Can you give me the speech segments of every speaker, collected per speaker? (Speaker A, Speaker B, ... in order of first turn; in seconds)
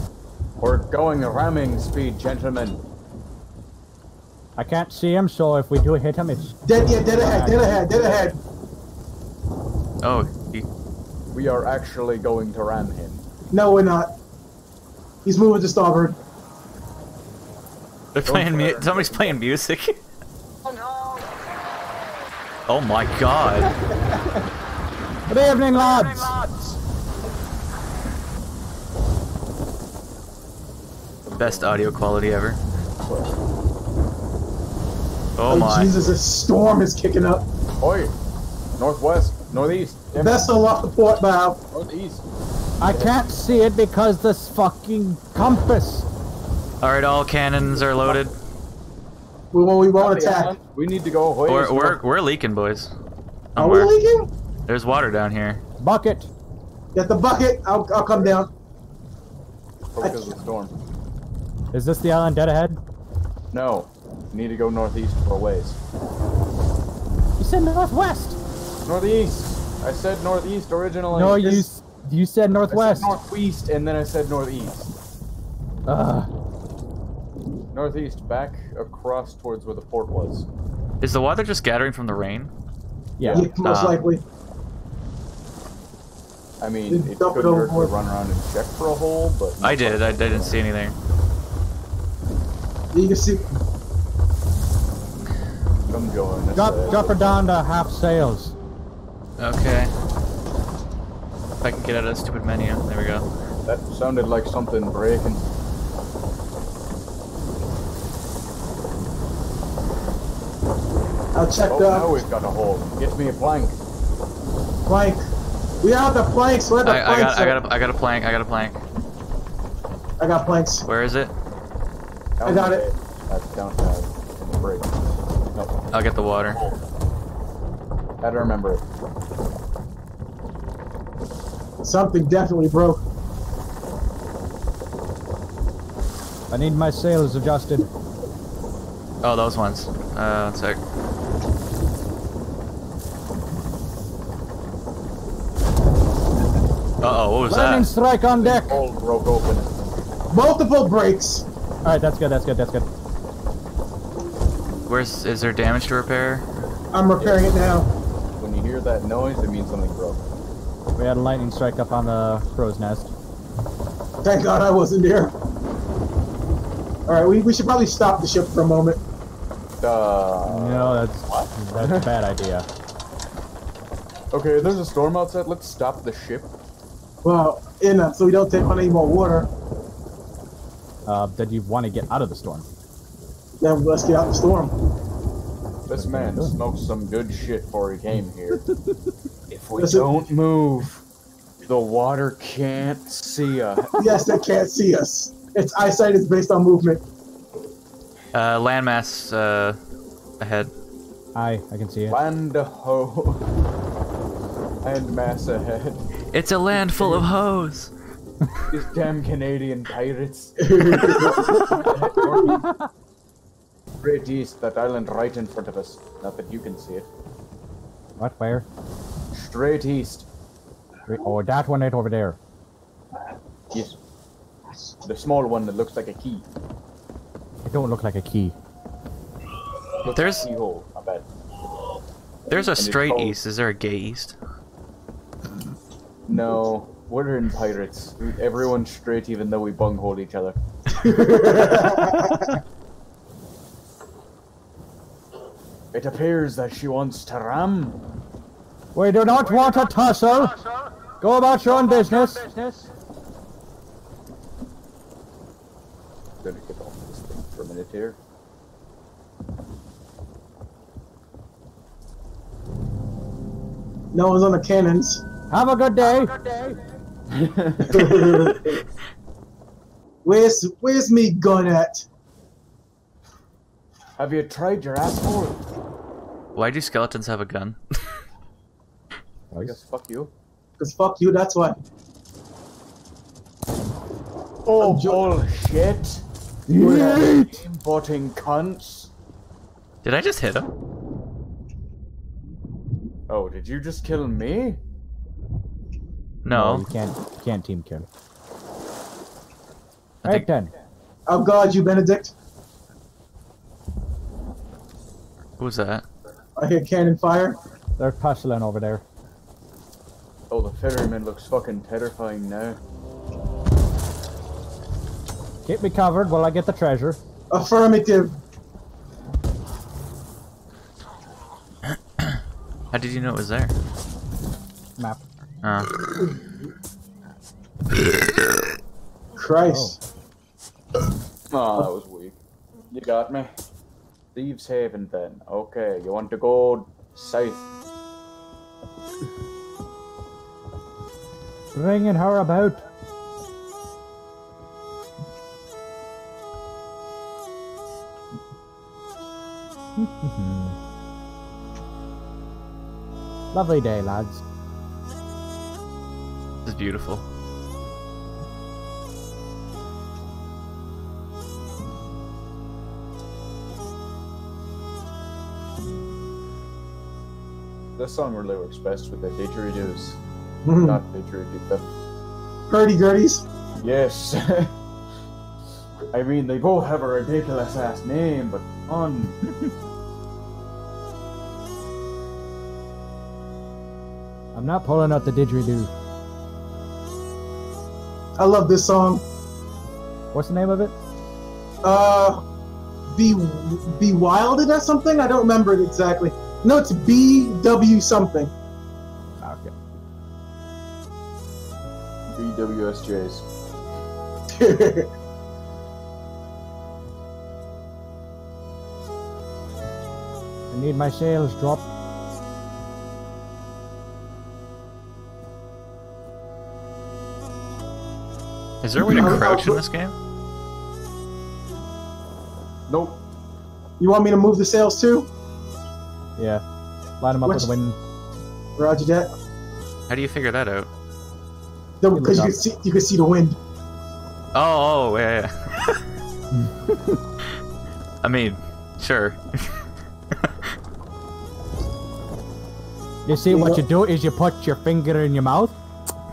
Speaker A: 0.6-2.8, 11.3-13.2, 18.3-19.4, 31.2-31.9, 33.0-33.4, 37.8-38.1, 38.8-40.6, 41.7-42.2, 42.8-43.3, 47.6-48.3, 50.0-52.0, 58.1-58.4, 59.9-60.7, 63.5-65.8, 68.8-71.7, 72.7-74.9, 77.7-80.5, 83.2-83.5, 86.6-90.7, 95.9-97.5, 103.7-105.5, 111.7-113.8, 122.4-125.8, 126.5-126.8, 128.2-128.8, 148.4-149.9, 157.2-157.5, 158.4-160.3, 169.8-172.1, 174.3-176.5, 185.9-188.6, 189.5-191.0, 191.6-194.3, 202.1-203.5, 204.8-206.1, 206.8-207.3, 208.7-212.6, 214.0-217.1, 219.3-220.3, 223.7-224.0, 225.0-226.5, 230.0-231.3, 232.7-233.4, 236.3-240.6, 245.9-248.0, 256.4-258.2, 267.3-268.6, 274.2-275.6, 279.6-280.3, 284.7-286.2, 286.9-289.1, 293.3-294.8, 310.5-312.8, 331.5-332.4, 332.9-333.5, 334.3-337.7, 368.0-370.2, 370.8-371.9, 373.8-374.7, 376.1-379.4, 402.3-403.5, 422.9-423.2
Speaker B: 4.6-8.2, 25.3-26.6, 42.8-46.1, 55.8-56.3, 61.7-62.8, 67.4-68.4, 71.1-73.2, 75.9-76.3, 83.2-83.5, 96.5-98.5, 136.5-137.9, 147.5-148.8, 151.8-152.9, 161.0-163.1, 170.5-172.7, 181.1-182.7, 185.9-186.6, 201.3-202.2, 212.5-212.9, 218.2-218.7, 221.1-222.4, 227.7-228.6, 248.9-250.6, 251.2-252.9, 265.5-266.8, 286.7-287.6, 296.5-298.1, 300.2-300.7, 308.0-309.0, 315.7-317.2, 325.0-325.2, 329.7-330.0, 341.7-342.8, 350.0-350.8, 353.5-354.4, 384.6-385.9, 390.3-390.9, 399.4-399.7, 410.7-411.9, 426.4-426.6, 427.2-428.0, 432.1-432.6, 436.5-437.2, 443.3-445.8
Speaker C: 6.7-8.4, 13.5-14.1, 15.2-16.2, 35.5-37.5, 40.2-41.6, 49.5-50.5, 53.6-54.3, 57.0-58.5, 60.0-60.3, 83.3-84.2, 86.9-87.9, 92.9-93.5, 111.3-112.2, 114.9-115.2, 115.8-117.6, 120.2-120.8, 122.4-122.8, 131.8-133.0, 150.3-151.5, 156.9-157.9, 164.2-165.3, 167.1-169.0, 177.2-179.5, 183.6-184.7, 189.8-190.1, 194.0-197.0, 210.6-211.5, 240.9-242.6, 264.1-265.2, 267.8-268.8, 270.2-272.1, 280.8-281.8, 284.8-285.3, 286.8-287.3, 301.3-302.3, 306.6-307.6, 317.5-318.4, 329.4-330.0, 370.6-371.0, 372.7-373.4, 388.4-389.2, 391.8-392.4, 393.1-398.5, 404.5-405.1, 419.1-419.8, 424.0-425.3, 427.4-427.7, 428.8-429.3, 432.0-433.6, 443.5-443.8
Speaker D: 10.0-10.7, 18.1-20.0, 22.7-23.7, 31.4-32.6, 35.4-36.1, 46.8-48.4, 51.5-52.9, 53.5-53.9, 54.7-55.6, 81.0-82.5, 83.6-84.0, 89.6-91.0, 99.4-99.9, 101.6-103.3, 116.8-118.8, 120.9-121.3, 125.9-126.6, 139.2-140.8, 147.0-147.9, 154.9-156.5, 198.3-199.8, 200.4-200.7, 206.3-207.9, 230.1-230.5, 232.5-234.4, 276.6-278.0, 290.0-290.7, 296.4-296.9, 305.6-306.1, 322.9-323.7, 325.6-325.9, 356.6-357.2, 418.8-420.1, 430.1-430.9, 434.5-436.0, 438.2-439.8